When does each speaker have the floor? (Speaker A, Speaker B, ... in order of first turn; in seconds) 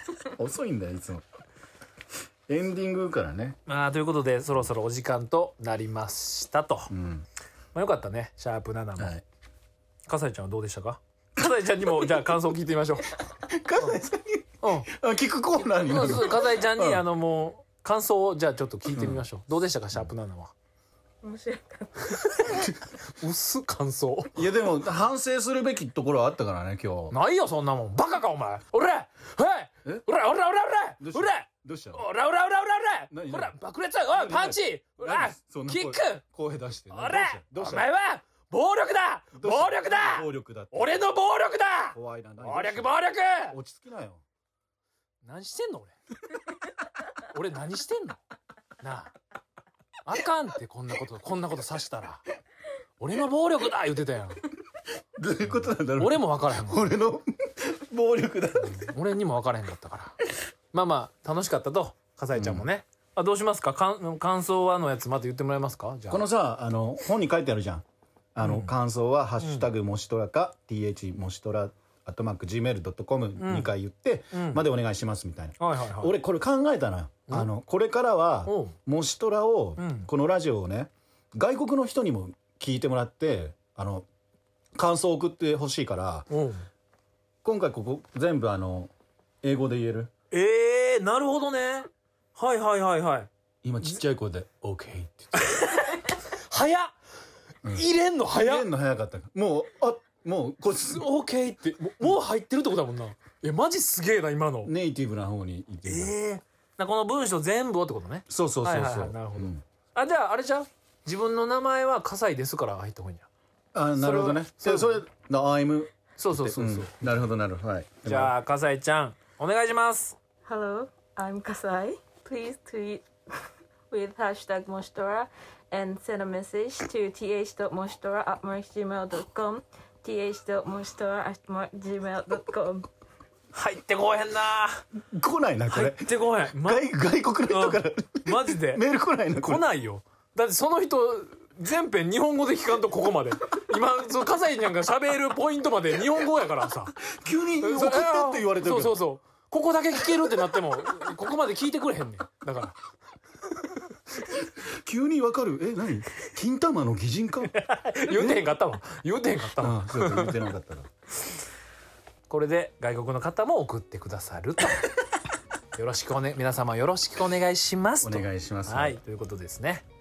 Speaker A: 0.3-1.2, 2.5-3.6, 6.9-7.2, 9.0-9.2, 13.4-17.0, 18.9-19.2, 24.4-27.1, 31.0-32.1, 33.1-33.5, 34.1-37.9, 39.4-41.0, 41.9-42.9, 43.5-44.2, 55.2-58.9, 62.4-62.6, 66.1-67.8, 68.3-84.1, 84.8-86.3, 87.4-88.9, 89.4-90.1, 93.6-95.6, 97.6-101.1, 104.6-106.1, 108.3-109.6, 113.7-118.3, 135.1-139.6, 147.0-149.0, 154.8-157.6, 158.1-158.4, 159.6-160.9, 168.0-169.0
Speaker B: 3.6-6.9, 7.7-9.1, 10.1-13.1, 14.6-14.9, 15.8-20.5, 22.1-24.4, 27.1-36.2, 36.9-43.6, 45.2-45.9, 47.3-48.2, 48.8-49.1, 50.1-52.2, 53.0-54.4, 55.5-56.9, 58.6-60.1, 60.7-66.3, 68.4-68.7, 69.4-69.7, 73.4-73.7, 74.3-74.6, 75.6-76.2, 78.5-78.8, 79.8-80.1, 86.3-86.7, 90.3-93.3, 95.3-96.9, 97.7-98.7, 100.9-104.7, 105.8-113.3, 114.0-115.0, 116.2-117.0, 118.0-120.2, 133.5-134.8, 135.7-136.9, 137.5-152.8, 157.5-160.4, 162.3-165.0, 165.7-169.8
Speaker C: 21.2-22.4, 120.5-123.0, 123.9-132.9